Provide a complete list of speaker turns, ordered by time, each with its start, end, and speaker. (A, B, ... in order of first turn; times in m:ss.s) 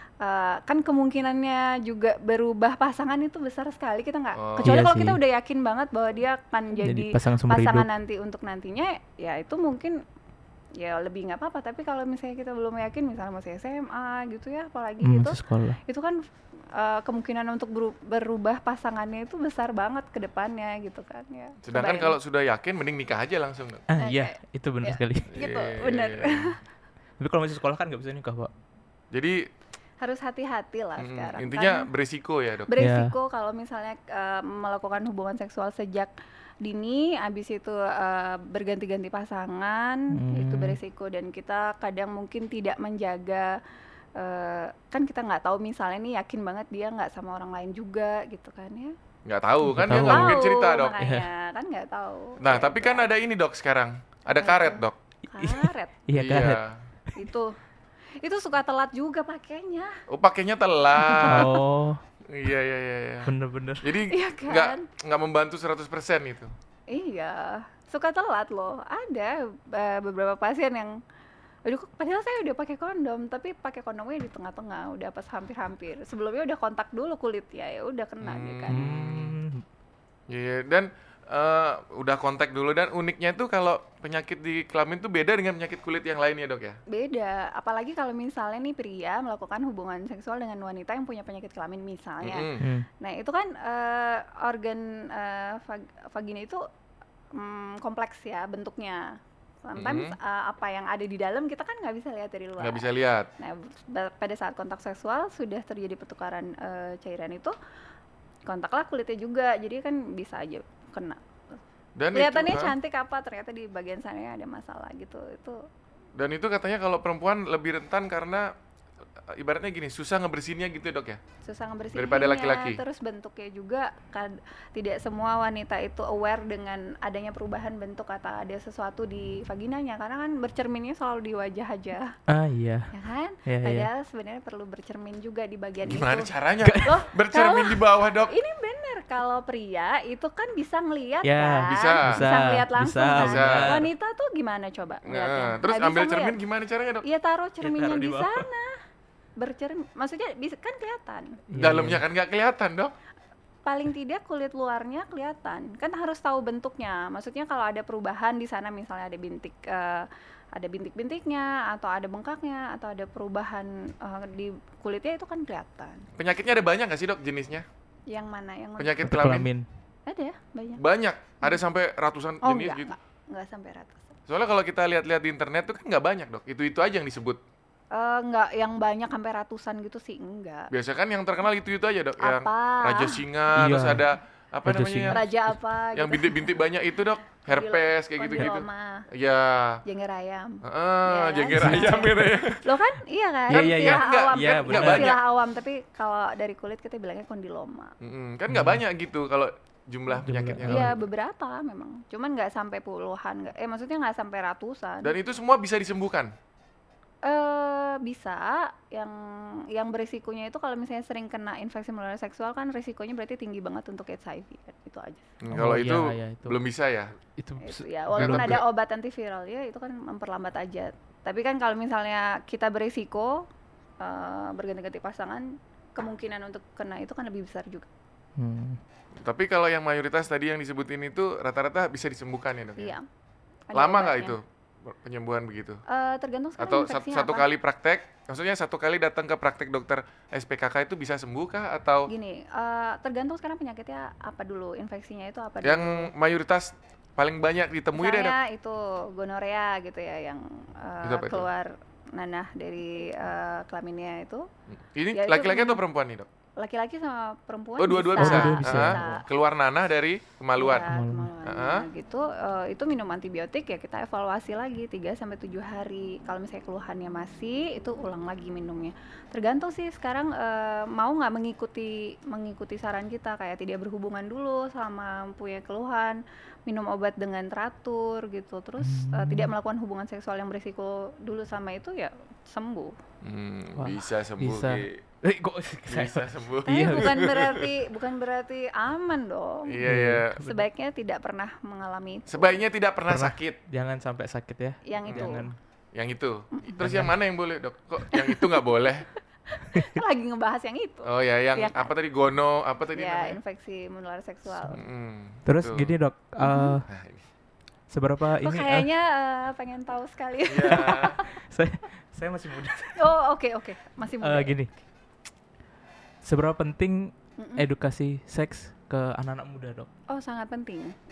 0:00.2-0:10.0 A
0:04.4-0:04.8 B
0:04.6-0:05.2 C
0:06.8-0:07.9 C
0:10.8-0:16.2 A
0:15.0-0:15.8 C
0:16.7-0:22.2 A
0:21.6-0:23.9 B
0:23.9-0:25.3 C
0:24.0-0:26.6 A
0:25.3-0:26.6 B
0:27.2-0:28.5 C
0:29.1-0:29.4 B
0:30.0-0:31.9 A
0:31.0-0:32.7 B
0:32.7-0:36.1 A
0:32.8-0:33.1 C
0:36.6-0:43.6 A
0:40.1-0:40.8 C
0:44.2-0:48.9 A
0:49.3-0:51.0 B
0:49.6-0:50.4 C
0:50.0-0:53.1 A
0:51.0-0:51.3 C
0:52.4-0:55.0 B
0:54.4-0:56.0 A
0:55.4-0:57.2 C
0:56.1-0:56.8 B
0:57.2-0:57.6 A
0:58.2-1:00.0 A
1:00.1-1:01.6 B
1:00.9-1:01.5 A
1:01.2-1:02.0 C
1:02.2-1:06.5 B
1:03.2-1:03.9 C
1:04.1-1:04.9 A
1:06.9-1:11.0 A
1:11.6-1:18.8 A
1:18.2-1:19.4 B
1:18.7-1:19.6 C
1:20.3-1:26.8 B
1:26.9-1:36.6 A
1:32.2-1:32.7 B
1:32.6-1:32.9 C
1:37.4-1:42.9 A
1:39.8-1:40.2 B
1:42.6-1:43.3 B
1:43.4-1:47.5 A
1:48.5-1:51.2 A
1:52.0-1:52.7 B
1:52.1-1:55.6 A
1:56.2-1:58.5 B
1:59.3-2:01.2 B
2:01.4-2:12.2 A
2:02.0-2:02.8 B
2:12.3-2:12.9 C
2:12.9-2:16.3 A
2:13.5-2:13.9 C
2:15.8-2:18.3 B
2:16.6-2:16.9 C
2:16.8-2:26.4 A
2:21.2-2:23.9 C
2:21.6-2:22.2 B
2:23.2-2:23.9 B
2:25.1-2:27.1 B
2:27.0-2:28.8 A
2:27.6-2:28.5 C
2:29.4-2:31.4 A
2:31.5-2:32.0 C
2:31.6-2:32.9 B
2:33.6-2:46.1 A
2:46.2-2:47.7 B
2:48.1-2:49.0 A
2:48.8-2:49.5 B
2:49.0-2:49.7 C
2:50.1-2:50.8 A
2:50.8-2:52.9 B
2:52.4-2:54.1 A
2:54.3-2:57.4 B
2:57.9-3:00.7 A
3:00.7-3:05.2 B
3:02.2-3:03.2 A
3:03.6-3:04.1 C
3:04.6-3:05.2 C
3:05.1-3:06.6 A
3:06.0-3:09.8 B
3:07.5-3:09.1 A
3:09.8-3:18.0 A
3:10.6-3:12.8 B
3:11.6-3:12.2 C
3:13.5-3:15.2 B
3:13.5-3:15.2 C
3:18.0-3:21.0 B
3:18.5-3:18.8 C
3:20.2-3:21.0 C
3:20.7-3:25.2 A
3:25.0-3:26.3 B
3:27.2-3:35.3 A
3:35.4-3:37.1 B
3:35.5-3:36.6 C
3:37.4-3:38.6 C
3:37.6-3:43.4 A
3:38.2-3:38.6 B
3:44.0-3:47.9 A
3:48.4-3:48.8 C
3:49.2-3:53.0 B
3:52.8-3:53.1 A
3:53.7-3:54.4 A
3:53.7-3:55.8 B
3:55.9-3:57.5 A
3:56.6-4:02.1 B
4:02.1-4:06.1 A
4:05.6-4:08.4 B
4:08.0-4:14.5 A
4:11.0-4:11.5 B
4:14.7-4:16.3 B
4:15.1-4:15.8 A
4:16.6-4:19.3 A
4:17.8-4:20.9 B
4:18.2-4:19.2 C
4:20.6-4:42.9 A
4:20.8-4:21.3 C
4:21.4-4:21.9 B
4:38.8-4:39.5 C
4:43.2-4:45.0 B
4:43.8-4:47.2 C
4:45.9-4:47.7 B
4:46.7-4:49.8 A
4:49.7-4:50.4 B
4:49.8-4:50.6 C
4:50.4-4:52.6 A
4:52.3-4:53.6 B
4:53.1-4:55.5 C
4:54.8-4:55.5 A
4:55.1-4:55.4 B
4:55.9-4:59.1 B
4:56.8-4:57.1 C
4:58.1-4:58.6 A
4:59.5-5:01.9 A
5:01.0-5:03.4 B
5:03.0-5:04.8 A
5:04.7-5:06.0 B
5:05.5-5:06.9 C
5:06.4-5:06.8 A
5:06.9-5:07.2 B
5:07.9-5:08.9 C
5:08.4-5:11.3 A
5:10.5-5:11.2 B
5:10.7-5:13.0 C
5:13.0-5:14.6 A
5:14.2-5:14.7 C
5:16.2-5:19.9 C
5:17.4-5:17.7 A
5:20.1-5:21.0 A